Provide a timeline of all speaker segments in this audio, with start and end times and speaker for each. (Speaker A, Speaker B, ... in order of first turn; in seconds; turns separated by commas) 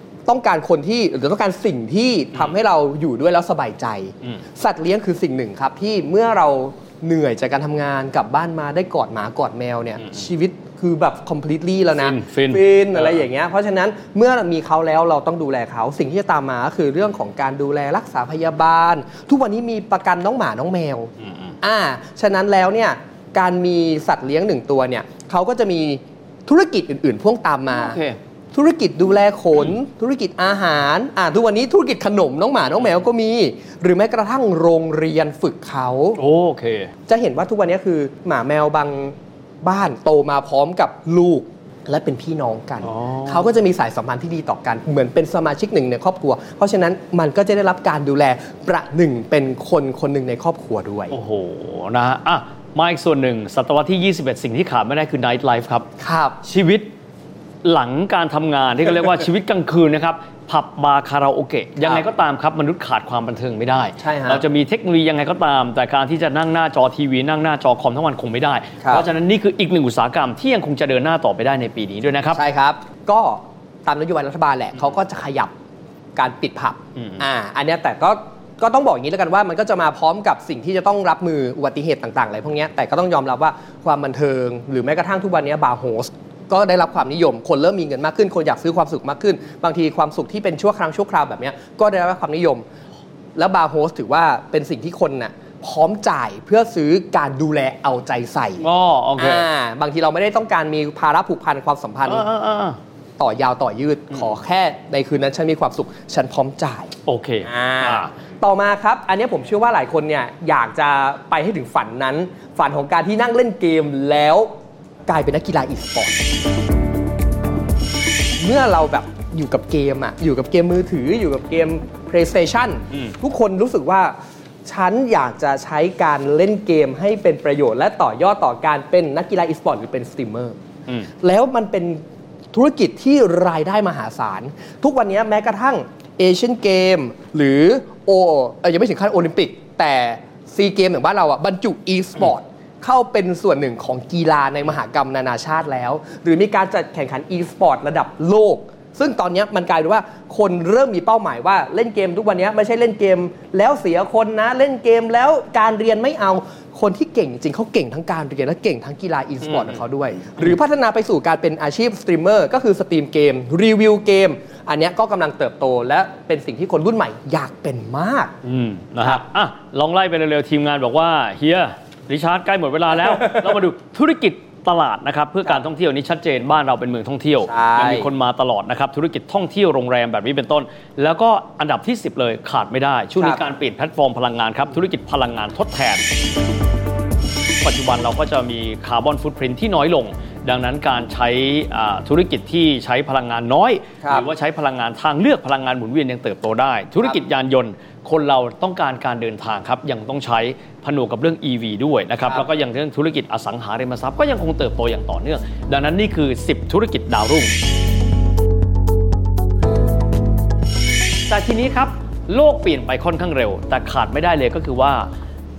Speaker A: 0.3-21.1, Speaker B: 11.9-13.2, Speaker B: 21.2-21.5, Speaker A: 21.6-28.0, Speaker B: 27.7-28.2, Speaker A: 28.5-36.2, Speaker B: 36.1-36.9, Speaker A: 37.1-51.1, Speaker B: 42.8-43.5, Speaker B: 51.1-55.9, Speaker A: 56.0-56.4, Speaker B: 56.4-56.9, Speaker B: 57.6-72.4, Speaker A: 61.8-62.0, Speaker A: 64.0-64.4, Speaker A: 68.8-69.1, Speaker A: 72.3-75.5, Speaker A: 76.2-92.6, Speaker B: 77.0-77.2, Speaker A: 93.3-98.6, Speaker B: 98.6-99.5, Speaker A: 99.2-102.2, Speaker B: 102.0-102.8, Speaker A: 103.2-106.9, Speaker B: 107.0-108.1, Speaker A: 107.4-114.5, Speaker A: 115.1-116.2, Speaker A: 118.4-124.1, Speaker A: 124.6-130.6, Speaker A: 131.2-132.0, Speaker A: 132.5-168.3, Speaker B: 159.4-159.8, Speaker B: 168.4-186.1, Speaker A: 177.4-178.1, Speaker A: 183.2-183.4, Speaker B: 187.6-207.5, Speaker A: 194.0-194.3, Speaker B: 211.3-215.1